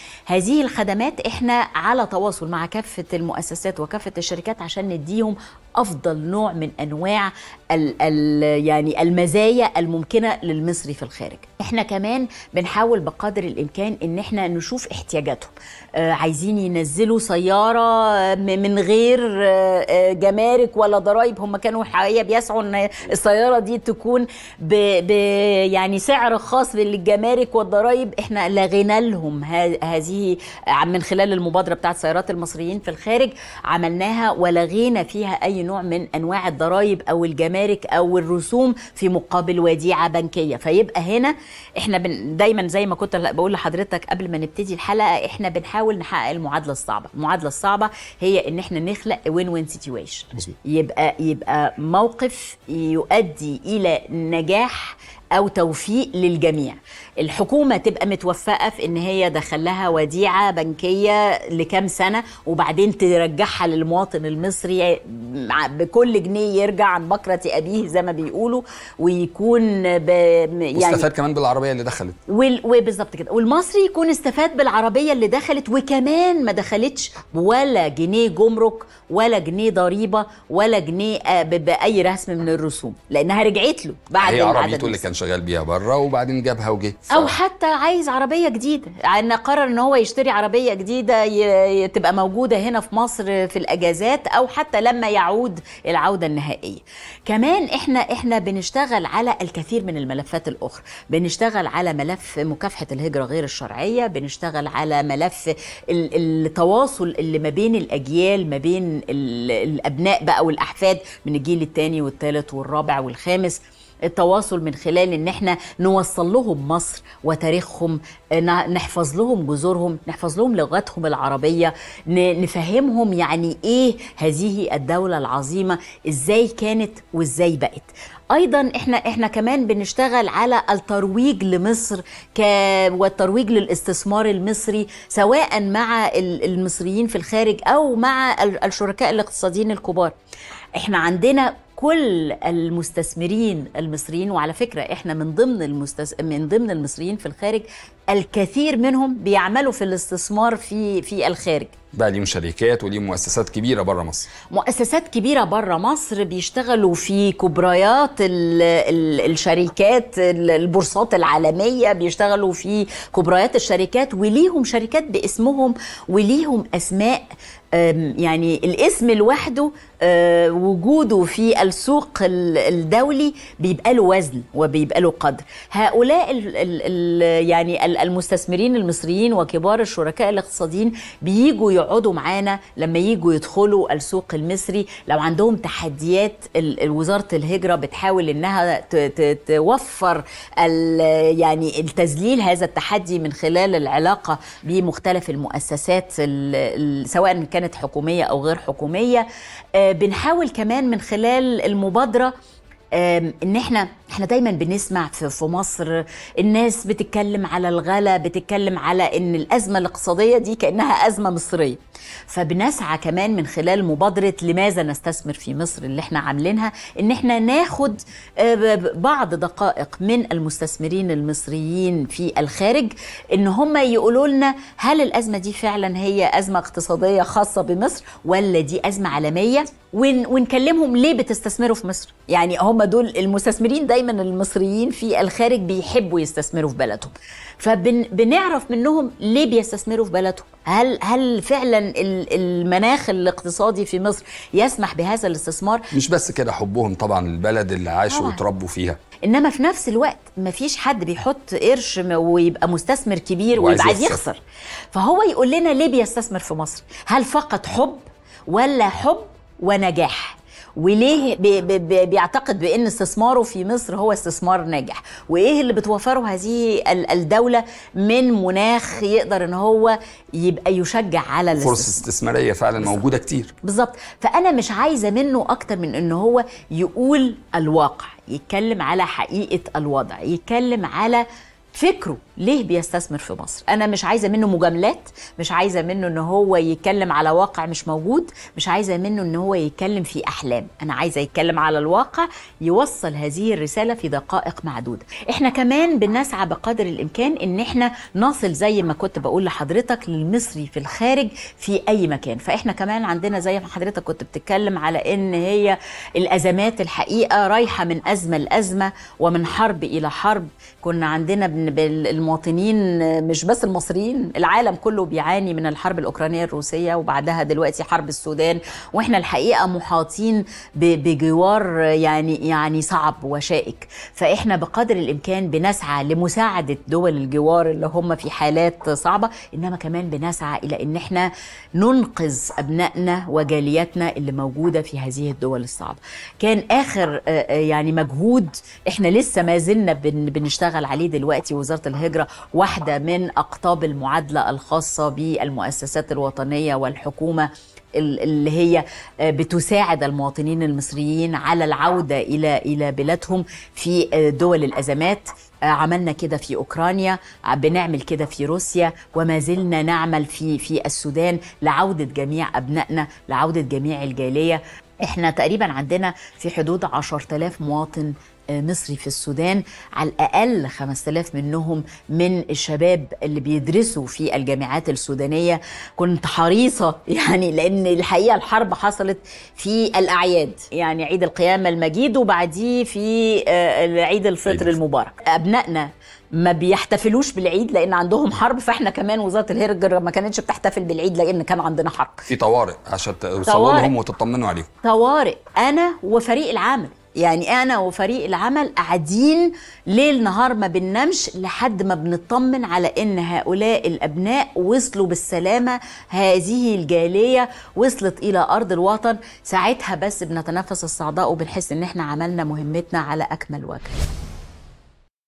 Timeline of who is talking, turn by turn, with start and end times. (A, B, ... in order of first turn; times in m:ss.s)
0:00.3-1:11.1 A
1:10.7-1:12.2 B
1:12.3-1:25.0 A
1:24.2-1:27.4 B
1:27.1-2:20.1 A
2:20.8-2:31.7 A
2:31.9-2:34.3 B
2:34.5-3:22.3 A
3:22.9-4:05.8 A
4:05.9-4:09.0 B
4:08.1-4:08.4 A
4:09.2-4:14.4 A
4:13.5-4:14.2 B
4:14.9-4:32.0 A
4:31.5-4:33.5 B
4:33.6-6:32.3 A
6:24.5-6:24.8 B
6:32.3-6:34.7 B
6:33.4-6:33.9 A
6:34.8-6:53.9 A